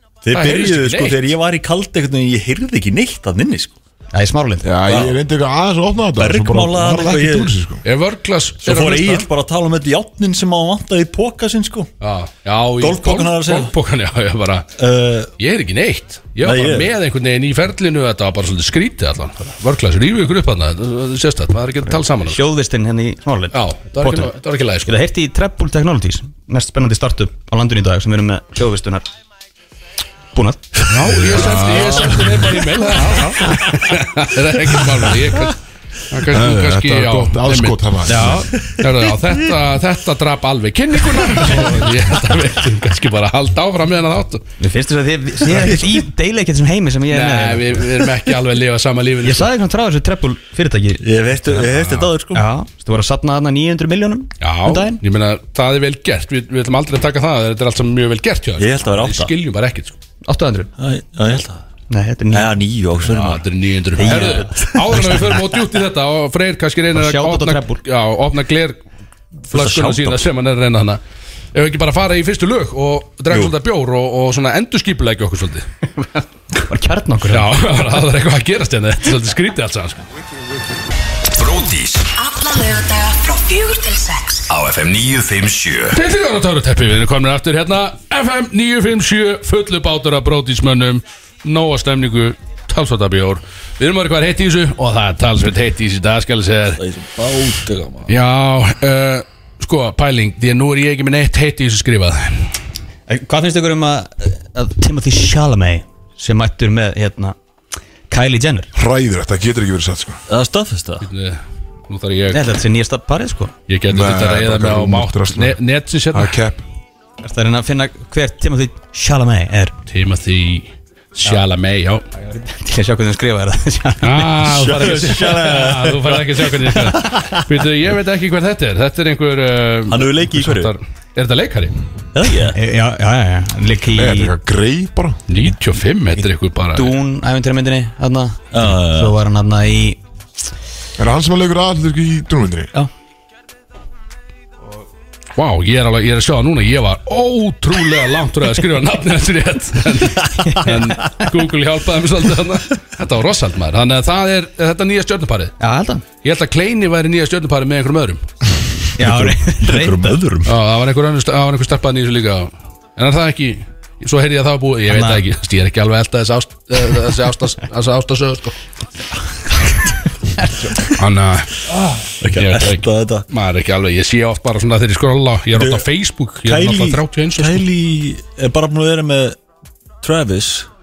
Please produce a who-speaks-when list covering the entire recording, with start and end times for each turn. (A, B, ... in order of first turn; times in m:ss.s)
0:00.2-0:03.8 A
0:00.3-0:01.2 B
0:04.1-0:04.7 C
0:04.6-0:07.8 D
0:04.9-0:05.2 A
0:06.2-0:07.5 A
0:07.8-0:09.3 B
0:08.6-0:11.9 A
0:12.0-0:14.7 B
0:12.8-0:13.7 A
0:14.8-0:15.3 A
0:15.4-0:22.4 B
0:16.4-0:16.9 A
0:22.2-0:24.3 C
0:23.5-0:25.0 B
0:24.9-0:29.1 C
0:30.3-0:30.8 C
0:30.9-0:35.6 B
0:31.3-0:32.3 D
0:31.6-0:32.2 C
0:33.0-0:33.6 C
0:36.1-0:44.4 B
0:36.3-0:38.5 D
0:38.1-0:38.4 C
0:44.6-0:48.0 C
0:45.5-0:46.0 A
0:47.1-0:49.5 B
0:49.2-0:51.6 C
0:51.0-0:52.5 A
0:51.6-0:52.1 B
0:52.3-0:55.0 C
0:54.4-1:00.0 B
0:58.6-0:59.3 A
1:00.2-1:00.7 C
1:00.8-1:01.6 A
1:01.9-1:02.6 C
1:02.3-1:04.7 A
1:03.0-1:08.8 B
1:04.0-1:05.4 C
1:06.9-1:07.8 C
1:09.5-1:11.0 B
1:09.5-1:10.3 A
1:11.5-1:15.7 B
1:16.6-1:17.9 C
1:17.3-1:20.0 B
1:21.4-1:22.1 E
1:22.2-1:24.5 F
1:24.5-1:26.0 E
1:25.9-1:36.8 B
1:36.8-1:38.1 A
1:38.1-1:42.6 B
1:43.1-1:47.4 C
1:48.1-1:48.7 C
1:48.7-1:50.2 D
1:50.3-1:51.1 A
1:51.0-1:52.4 B
1:52.3-1:53.5 C
1:53.7-1:56.4 B
1:53.9-1:55.6 D
1:56.1-1:56.6 D
1:57.2-1:59.7 C
1:59.9-2:02.0 B
2:02.1-2:04.3 C
2:04.0-2:11.8 B
2:04.4-2:07.3 A
2:09.9-2:10.7 A
2:12.1-2:12.6 A
2:12.5-2:14.3 C
2:13.9-2:15.2 D
2:15.3-2:16.9 B
2:16.8-2:20.0 C
2:18.5-2:19.2 A
2:21.0-2:22.7 D
2:25.4-2:35.6 B
2:30.4-2:31.1 C
2:35.6-2:36.0 C
2:36.2-2:38.2 B
2:39.0-2:40.2 C
2:39.0-2:40.5 A
2:40.4-2:48.6 B
2:44.9-2:45.2 C
2:50.4-2:50.9 C
2:50.9-2:51.6 B
2:51.7-2:53.2 A
2:52.3-2:57.7 B
2:55.5-2:55.8 A
2:56.4-2:59.4 A
3:00.0-3:00.7 A